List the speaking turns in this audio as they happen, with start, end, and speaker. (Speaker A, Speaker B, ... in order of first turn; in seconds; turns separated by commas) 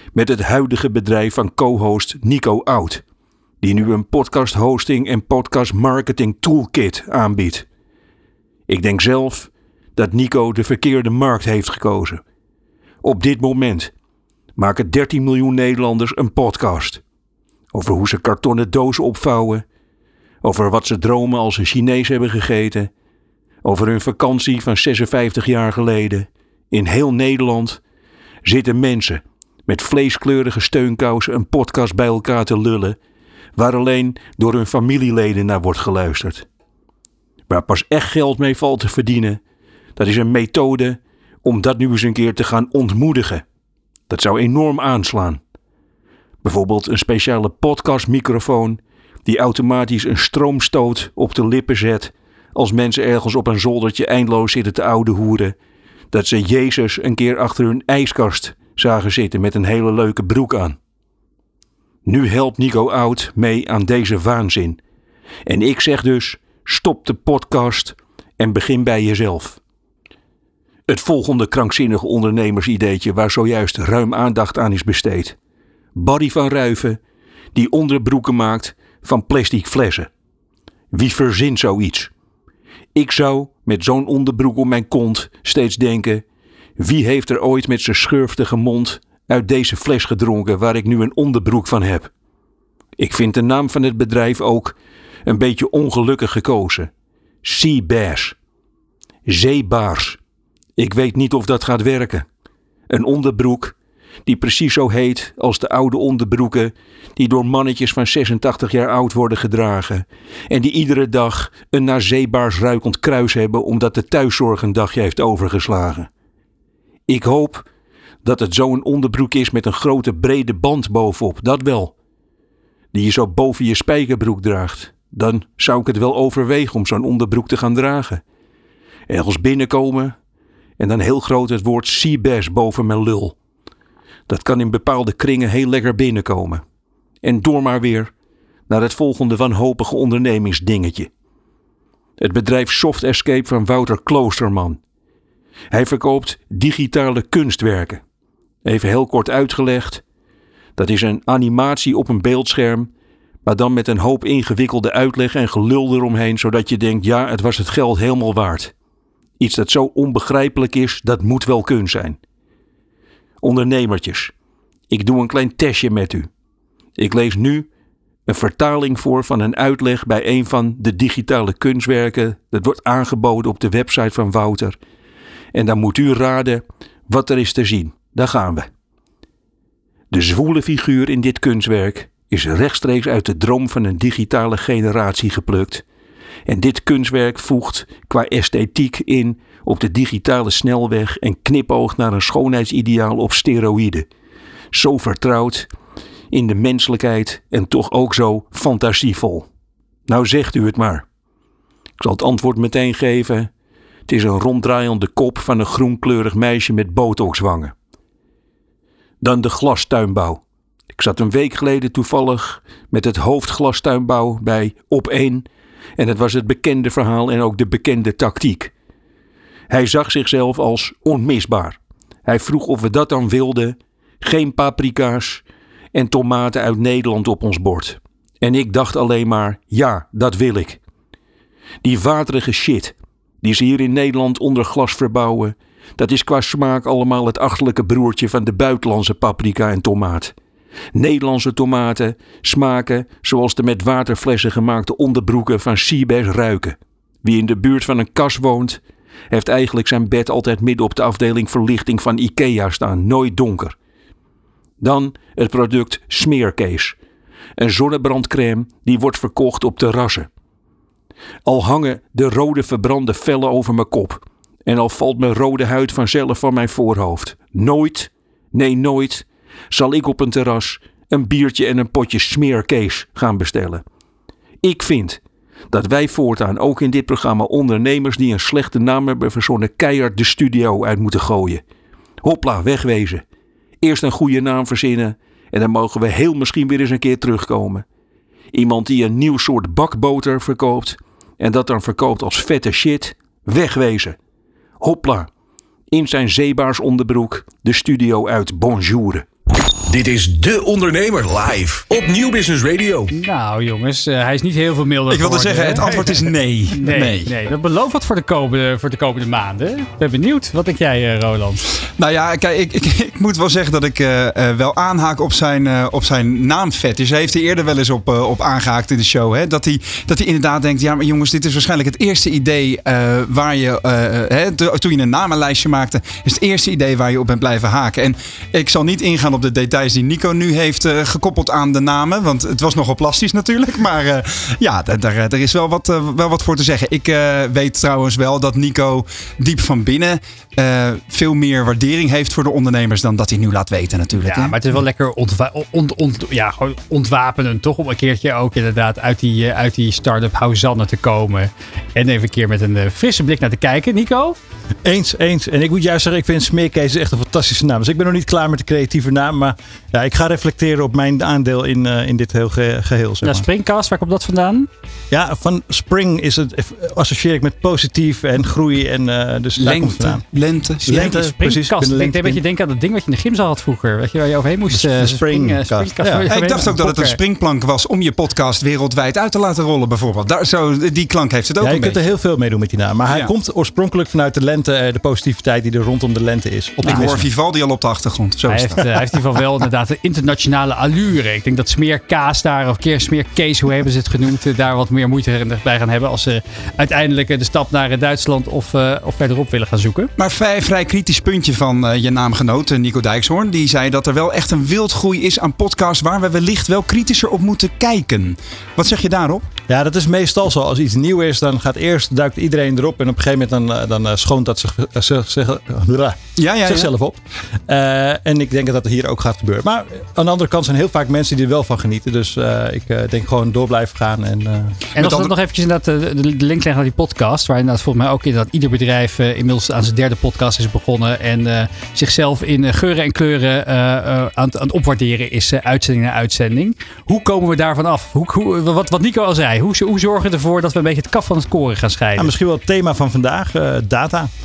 Speaker A: 0.1-3.0, Speaker A: 3.6-7.7, Speaker A: 8.7-12.2, Speaker A: 13.0-13.9, Speaker A: 14.6-17.0, Speaker A: 17.7-19.6, Speaker A: 20.4-22.9, Speaker A: 23.6-27.8, Speaker A: 28.4-33.0, Speaker A: 33.5-36.5, Speaker A: 37.5-39.4, Speaker A: 40.0-43.4, Speaker A: 44.1-45.4, Speaker A: 46.4-55.5, Speaker A: 56.1-60.8, Speaker A: 62.0-64.8, Speaker A: 65.5-69.6, Speaker A: 70.9-75.4, Speaker A: 75.9-77.0, Speaker A: 77.5-80.1, Speaker A: 80.9-82.1, Speaker A: 82.9-86.2, Speaker A: 86.8-92.1, Speaker A: 93.0-96.9, Speaker A: 97.4-98.3, Speaker A: 99.3-100.2, Speaker A: 100.8-102.3, Speaker A: 102.9-116.1, Speaker A: 117.1-117.7, Speaker A: 118.2-121.9, Speaker A: 122.9-128.2, Speaker A: 129.1-130.2, Speaker A: 130.8-133.3, Speaker A: 134.3-136.6, Speaker A: 137.2-138.1, Speaker A: 138.7-141.1, Speaker A: 142.2-144.8, Speaker A: 145.7-148.0, Speaker A: 148.6-150.0, Speaker A: 150.8-152.9, Speaker A: 153.4-158.7, Speaker A: 159.4-162.2, Speaker A: 163.4-164.3, Speaker A: 164.9-166.3, Speaker A: 166.9-167.7, Speaker A: 168.3-174.8, Speaker A: 175.5-178.7, Speaker A: 180.1-185.8, Speaker A: 186.4-194.1, Speaker A: 194.7-195.7, Speaker A: 196.3-199.5, Speaker A: 200.1-201.1, Speaker A: 202.0-203.5, Speaker A: 204.1-207.7, Speaker A: 209.2-210.4, Speaker A: 210.9-218.7, Speaker A: 219.7-225.4, Speaker A: 225.9-230.8, Speaker A: 231.8-240.3, Speaker A: 240.9-253.8, Speaker A: 254.8-257.0, Speaker A: 257.6-260.3, Speaker A: 261.4-273.8, Speaker A: 274.6-281.6, Speaker A: 282.2-283.2, Speaker A: 283.8-287.9, Speaker A: 288.5-294.2, Speaker A: 294.8-295.3, Speaker A: 295.9-299.3, Speaker B: 299.9-303.1, Speaker C: 303.1-311.6, Speaker D: 305.1-307.3, Speaker E: 305.8-306.2, Speaker D: 312.0-344.6, Speaker C: 344.2-354.4, Speaker E: 354.8-363.5, Speaker C: 363.2-364.7, Speaker E: 365.1-370.2, Speaker D: 369.6-371.1, Speaker E: 370.8-372.4, Speaker C: 370.9-377.2, Speaker E: 374.7-376.3, Speaker D: 376.3-382.0, Speaker E: 381.6-387.3, Speaker D: 386.8-389.1, Speaker C: 388.5-400.1, Speaker D: 400.2-409.4, Speaker E: 409.7-424.8, Speaker D: 416.4-416.9, Speaker D: 424.9-425.3, Speaker C: 424.9-442.3, Speaker E: 442.1-444.3